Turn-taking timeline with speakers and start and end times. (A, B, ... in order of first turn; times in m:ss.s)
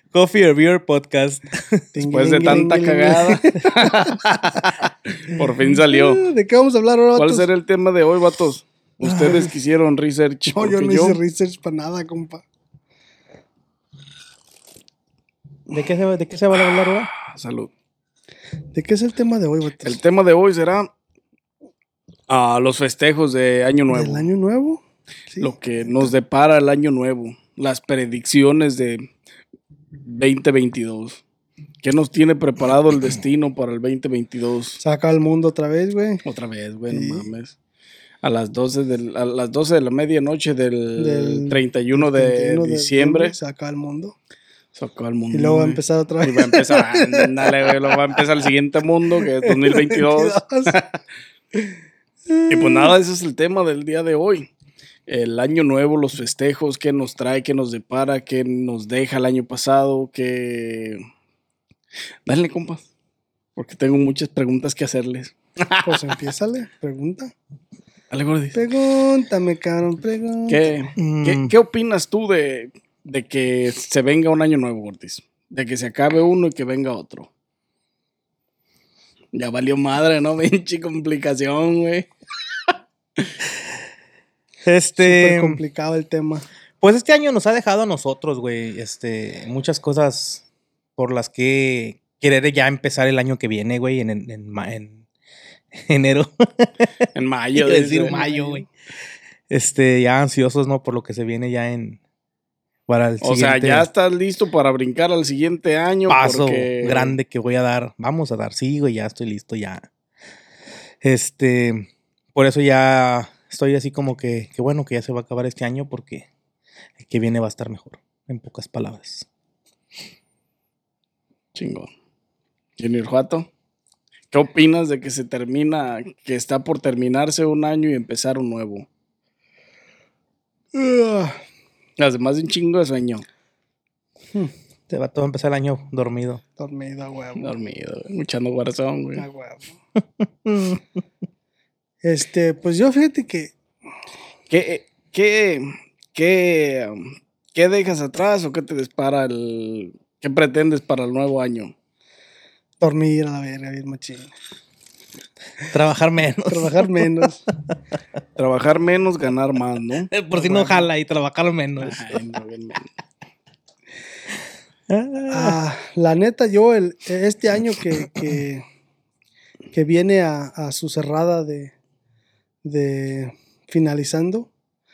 0:00.1-0:01.9 A
0:02.0-0:03.9 B
0:02.1-0:06.3 C
0:03.9-0:04.3 A
0:05.4-0:07.5 B
0:07.2-0:11.2 C
0:09.0-0:09.5 A
0:10.5-0:12.4 B
0:15.7-0:17.1 A
0:16.6-0:17.7 C
0:18.7-0:20.0 B
0:19.8-0:20.9 C
0:22.3-0:24.3 C
0:23.9-0:26.1 B
0:25.4-0:29.1 C
0:30.1-0:31.2 C
0:31.8-0:34.8 C
0:34.8-0:36.2 B
0:36.2-0:37.6 C
0:36.9-0:37.3 B
0:38.2-0:43.4 C
0:41.0-0:44.2 B
0:44.8-0:51.0 C
0:45.3-0:48.2 B
0:49.2-0:50.8 B
0:52.3-0:52.9 B
0:52.5-0:54.5 C
0:55.1-1:01.0 C
1:02.3-1:02.9 C
1:03.6-1:06.0 C
1:05.8-1:07.3 B
1:08.1-1:08.6 C
1:08.5-1:10.7 B
1:10.5-1:17.3 C
1:11.0-1:11.5 A
1:19.3-1:22.1 C
1:24.6-1:25.6 A
1:25.0-1:26.5 B
1:26.8-1:30.4 A
1:31.0-1:35.0 A
1:35.7-1:36.9 A
1:37.2-1:38.3 C
1:37.6-1:38.7 A
1:38.1-1:38.6 B
1:39.5-1:42.0 A
1:42.9-1:43.9 A
1:43.2-1:47.2 C
1:46.1-1:49.9 A
1:51.0-1:56.3 A
1:57.0-1:59.3 A
2:01.6-2:01.9 C
2:02.8-2:03.5 C
2:04.3-2:08.9 C
2:10.7-2:11.4 B
2:12.0-2:13.2 C
2:14.9-2:16.4 A
2:16.6-2:17.5 B
2:17.4-2:19.3 C
2:19.2-2:19.8 B
2:20.2-2:20.8 A
2:22.0-2:23.5 B
2:24.5-2:31.7 C
2:32.8-2:34.3 B
2:35.6-2:37.2 A
2:36.5-2:37.5 B
2:38.4-2:40.1 C
2:40.1-2:42.2 A
2:40.3-2:40.9 B
2:41.8-2:42.9 C
2:44.9-2:45.6 A
2:45.3-2:48.6 B
2:49.7-2:51.7 B
2:52.6-2:54.5 B